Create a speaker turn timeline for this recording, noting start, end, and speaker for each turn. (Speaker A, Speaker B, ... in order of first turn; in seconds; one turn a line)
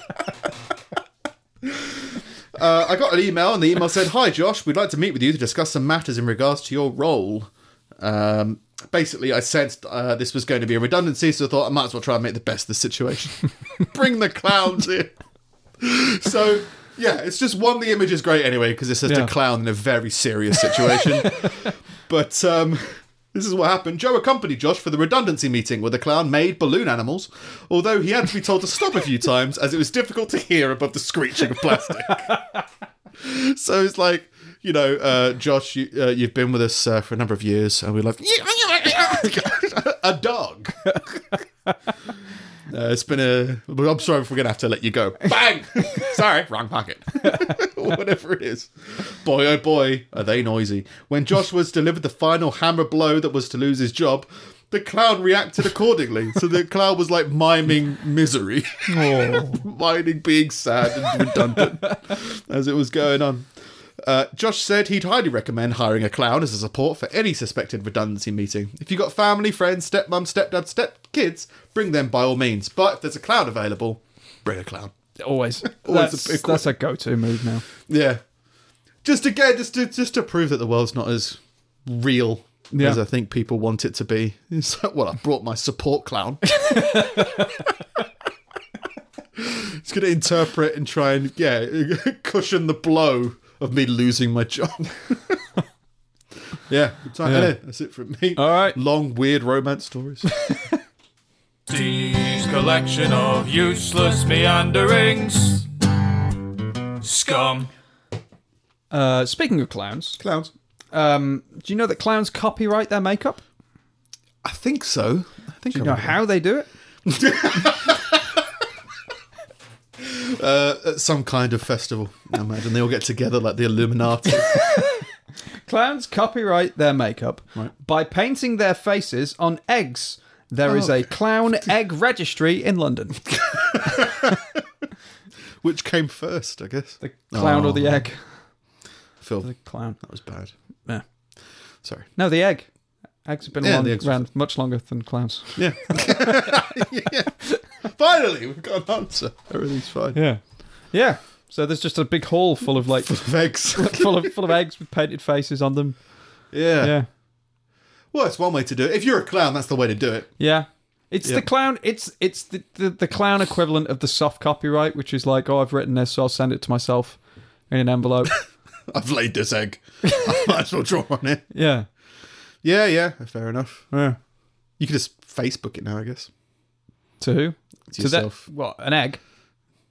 Speaker A: 1.6-15.1
Speaker A: 15.8-32.3
Speaker B: 32.3-32.6
Speaker A: 33.2-41.2
Speaker A: 42.7-63.5
Speaker B: 58.9-59.6
Speaker A: 64.0-74.9
Speaker B: 75.2-77.7
Speaker A: 75.6-76.7
Speaker A: 77.9-78.2
Speaker A: 79.0-86.8
Speaker B: 82.7-83.0
Speaker B: 86.5-87.5
Speaker A: 89.4-95.4
Speaker A: 96.7-100.2
Speaker B: 97.2-97.5
Speaker B: 98.4-98.8
Speaker C: 101.7-105.7
Speaker C: 107.0-107.7
Speaker B: 108.9-110.2
Speaker A: 110.2-110.5
Speaker B: 110.9-113.4
Speaker A: 114.4-116.2
Speaker B: 115.7-116.7
Speaker A: 117.1-118.5
Speaker A: 120.0-124.6
Speaker B: 124.5-125.0
Speaker B: 125.7-133.2
Speaker A: 130.7-131.1
Speaker A: 133.3-134.6
Speaker A: 135.6-138.0
Speaker B: 137.0-138.2
Speaker A: 139.2-140.5
Speaker B: 139.4-140.0
Speaker A: 141.8-142.1
Speaker B: 142.2-142.7
Speaker B: 143.2-146.6
Speaker A: 143.6-144.2
Speaker A: 145.6-150.2
Speaker B: 150.1-156.0
Speaker A: 153.1-154.3
Speaker A: 156.5-157.0
Speaker B: 156.8-157.1
Speaker A: 158.1-160.3
Speaker B: 160.4-167.2
Speaker B: 167.7-168.3
Speaker A: 168.9-171.4
Speaker B: 171.5-171.9
Speaker A: 172.6-173.9
Speaker B: 173.9-174.2
Speaker A: 174.8-176.3
Speaker B: 177.2-179.2
Speaker A: 177.9-178.4